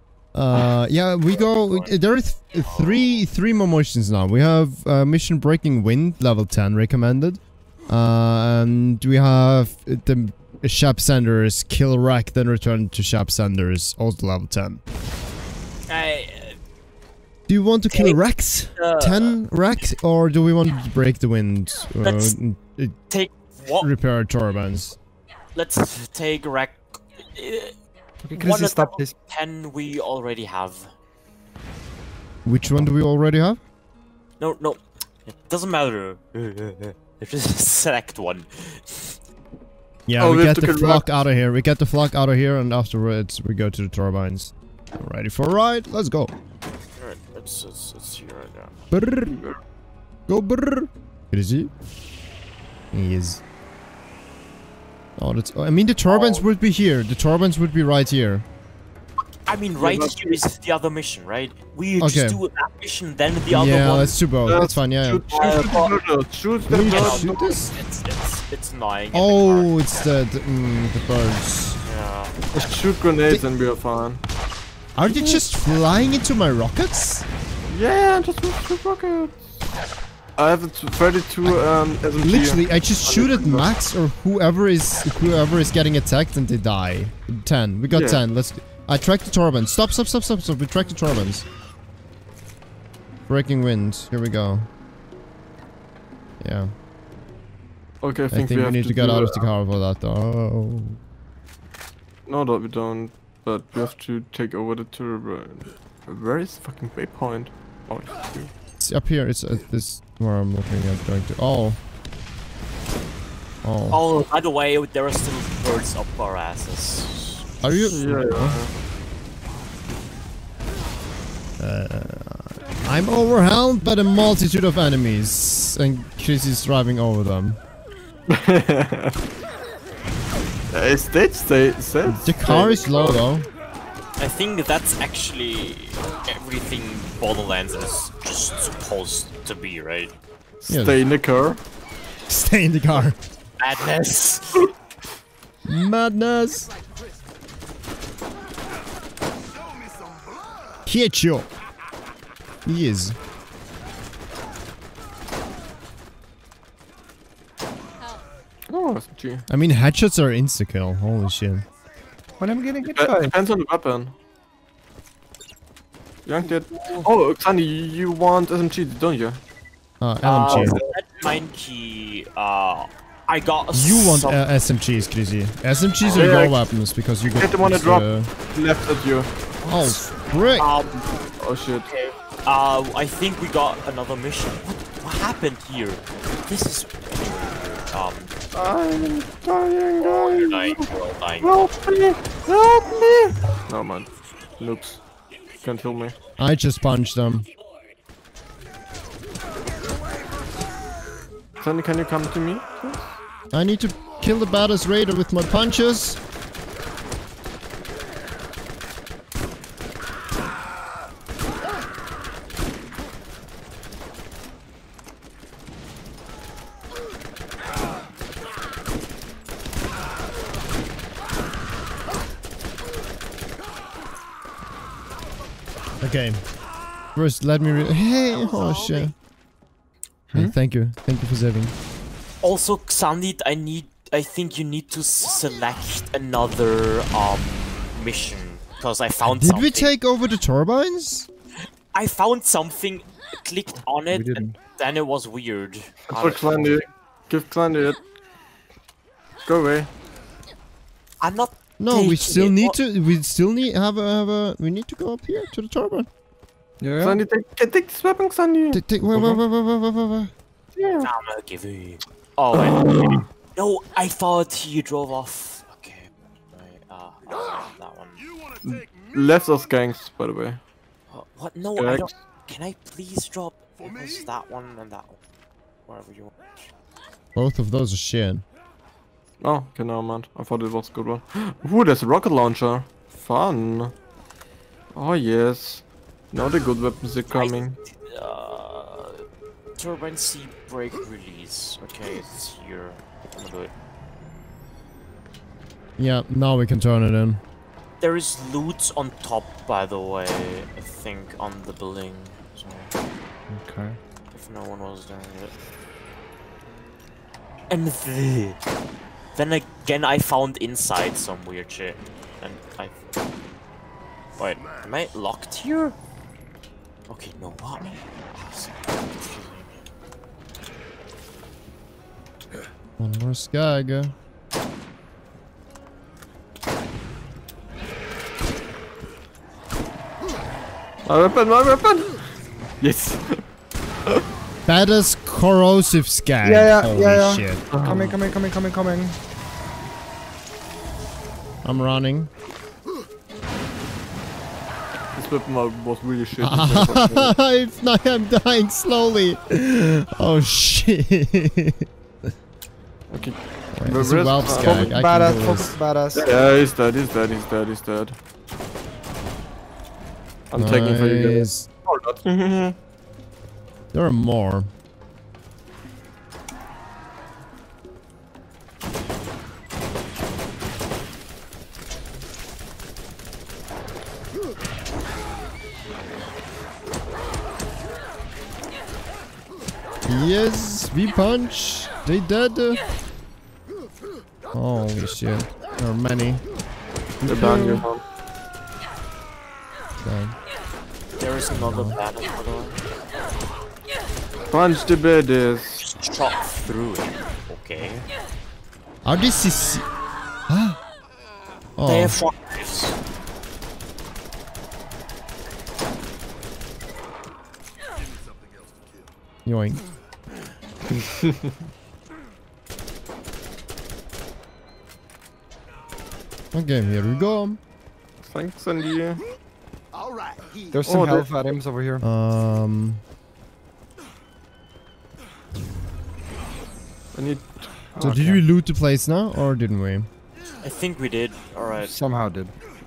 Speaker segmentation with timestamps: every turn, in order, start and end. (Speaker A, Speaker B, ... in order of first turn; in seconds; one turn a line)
Speaker A: 0.3-14.8
Speaker B: 1.3-2.0
Speaker B: 2.6-3.2
Speaker B: 15.9-16.6
Speaker A: 17.5-23.0
Speaker B: 17.9-18.2
Speaker B: 18.8-19.4
Speaker B: 22.0-22.4
Speaker B: 23.1-23.9
Speaker A: 23.7-25.0
Speaker B: 25.6-27.8
Speaker C: 28.2-29.1
Speaker B: 28.4-30.9
Speaker A: 32.5-33.6
Speaker B: 34.4-39.2
Speaker A: 40.1-46.3
Speaker D: 40.2-41.1
Speaker B: 47.0-48.8
Speaker A: 48.9-49.4
Speaker D: 49.3-49.6
Speaker A: 50.3-51.7
Speaker A: 52.9-53.4
Speaker A: 55.2-58.5
Speaker B: 56.0-56.5
Speaker B: 59.5-64.2
Speaker D: 59.8-60.4
Speaker A: 62.0-62.4
Speaker A: 63.5-65.3
Speaker D: 64.5-67.3
Speaker B: 65.3-65.9
Speaker A: 66.7-67.8
Speaker B: 66.8-69.7
Speaker A: 69.1-71.8
Speaker B: 71.8-72.3
Speaker D: 72.5-74.2
Speaker A: 75.0-77.3
Speaker D: 75.0-75.4
Speaker D: 77.7-79.6
Speaker D: 80.4-83.7
Speaker A: 81.5-91.5
Speaker D: 87.9-88.2
Speaker A: 93.3-94.7
Speaker A: 96.4-96.7
Speaker D: 98.0-99.5
Speaker A: 98.3-101.0
Speaker D: 102.3-108.5
Speaker A: 108.8-111.8
Speaker A: 113.6-114.0
Speaker B: 113.9-117.5
Speaker A: 117.6-118.6
Speaker D: 117.8-118.7
Speaker A: 121.6-127.6
Speaker D: 128.3-129.2
Speaker D: 130.7-133.3
Speaker A: 132.1-133.5
Speaker B: 134.2-140.2
Speaker D: 140.6-141.6
Speaker A: 140.7-141.0
Speaker A: 142.3-143.2
Speaker B: 143.6-144.7
Speaker A: 145.7-146.7
Speaker A: 150.9-151.5
Speaker A: 152.7-153.2
Speaker D: 158.7-159.5
Speaker A: 159.5-161.7
Speaker C: 162.4-163.3
Speaker D: 162.8-164.2
Speaker D: 166.3-169.4
Speaker B: 166.7-167.1
Speaker A: 170.0-170.8
Speaker B: 170.2-174.5
Speaker D: 170.5-170.9
Speaker A: 173.7-178.3
Speaker B: 176.0-176.3
Speaker D: 176.1-176.6
Speaker D: 177.3-179.3
Speaker A: 179.6-180.7
Speaker B: 179.7-180.0
Speaker B: 180.6-181.0
Speaker D: 181.4-181.9
Speaker B: 181.9-188.3
Speaker D: 188.5-190.9
Speaker B: 190.0-191.7
Speaker D: 191.4-195.0
Speaker D: 195.6-196.2
Speaker A: 196.4-197.5
Speaker D: 201.6-203.2
Speaker A: 203.5-206.2
Speaker A: 226.0-226.4
Speaker A: 227.1-229.1
Speaker B: 228.3-229.1
Speaker A: 230.3-231.7
Speaker B: 232.4-239.9
Speaker A: 239.2-241.3
Speaker B: 241.9-246.8
Speaker C: 244.1-244.5
Speaker D: 246.1-248.0
Speaker D: 249.4-249.9
Speaker B: 251.2-252.8
Speaker A: 251.8-256.1
Speaker C: 256.8-257.2
Speaker D: 257.0-258.8
Speaker A: 258.7-260.3
Speaker C: 259.1-259.4
Speaker D: 260.8-261.1
Speaker B: 261.0-268.2
Speaker D: 262.5-263.3
Speaker D: 268.6-270.6
Speaker B: 271.1-275.2
Speaker D: 271.8-272.1
Speaker B: 275.9-276.3
Speaker A: 277.4-278.4
Speaker D: 279.4-283.9
Speaker D: 284.9-287.8
Speaker B: 287.3-289.2
Speaker B: 289.8-293.7
Speaker A: 296.0-297.4
Speaker B: 298.0-302.9
Speaker C: 303.5-304.0
Speaker B: 304.3-305.5
Speaker B: 307.7-308.6
Speaker B: 309.4-313.1
Speaker B: 314.4-316.0
Speaker B: 317.1-319.8
Speaker A: 323.0-324.1
Speaker D: 331.1-332.3
Speaker D: 332.8-333.4
Speaker A: 334.7-337.9
Speaker C: 336.4-339.2
Speaker D: 337.7-338.1
Speaker A: 341.6-342.3
Speaker D: 345.1-347.4
Speaker A: 346.4-351.9
Speaker D: 353.1-355.0
Speaker A: 353.8-355.8
Speaker C: 354.5-356.6
Speaker D: 356.1-358.2
Speaker D: 360.5-362.8
Speaker A: 360.6-361.7
Speaker A: 363.9-364.7
Speaker A: 380.1-382.8
Speaker A: 384.5-386.4
Speaker A: 387.2-387.9
Speaker D: 387.2-388.0
Speaker A: 390.0-390.4
Speaker B: 391.2-392.8
Speaker A: 391.6-392.0
Speaker D: 394.5-395.8
Speaker B: 395.8-398.1
Speaker A: 399.0-399.9
Speaker A: 400.5-400.8
Speaker A: 401.8-402.2
Speaker B: 401.8-403.0
Speaker A: 409.5-409.8
Speaker D: 411.2-411.5
Speaker A: 416.5-417.6
Speaker D: 418.2-419.2
Speaker C: 420.7-422.1
Speaker D: 420.9-421.4
Speaker A: 422.0-423.0
Speaker D: 427.1-427.7
Speaker C: 427.9-428.4
Speaker A: 428.0-430.1
Speaker B: 430.6-431.9
Speaker C: 431.8-432.6